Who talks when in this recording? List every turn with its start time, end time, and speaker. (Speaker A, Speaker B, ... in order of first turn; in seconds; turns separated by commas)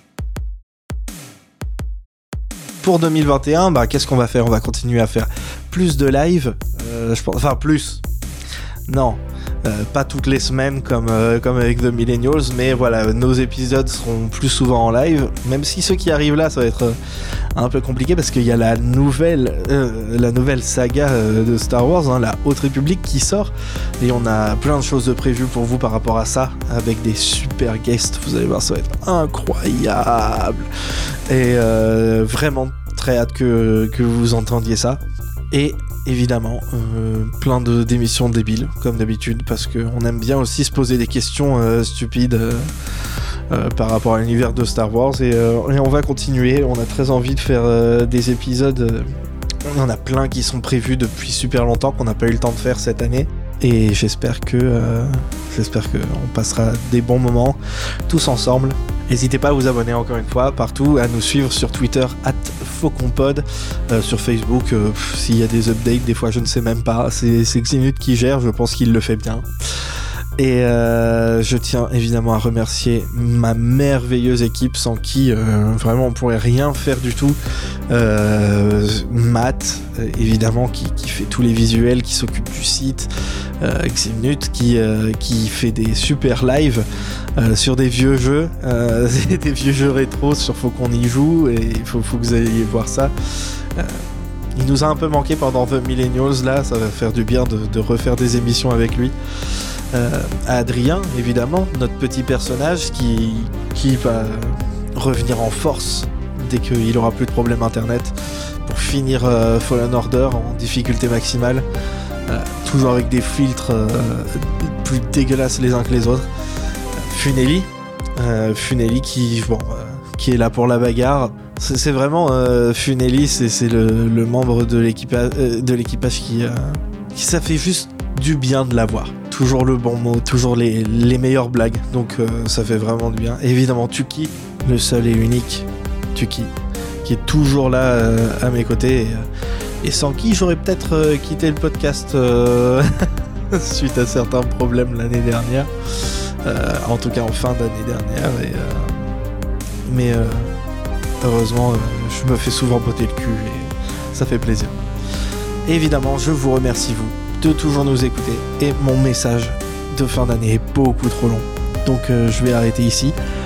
Speaker A: 2.8-8.0, Speaker A: 8.9-17.0, Speaker A: 17.5-30.7, Speaker A: 31.3-42.7, Speaker A: 43.5-49.1, Speaker A: 49.6-77.4, Speaker A: 77.9-83.1, Speaker A: 83.6-93.1, Speaker A: 93.7-99.1, Speaker A: 99.9-111.7, Speaker A: 112.3-116.3, Speaker A: 116.9-139.2, Speaker A: 139.8-149.2, Speaker A: 149.8-150.5, Speaker A: 151.2-154.8, Speaker A: 155.7-163.2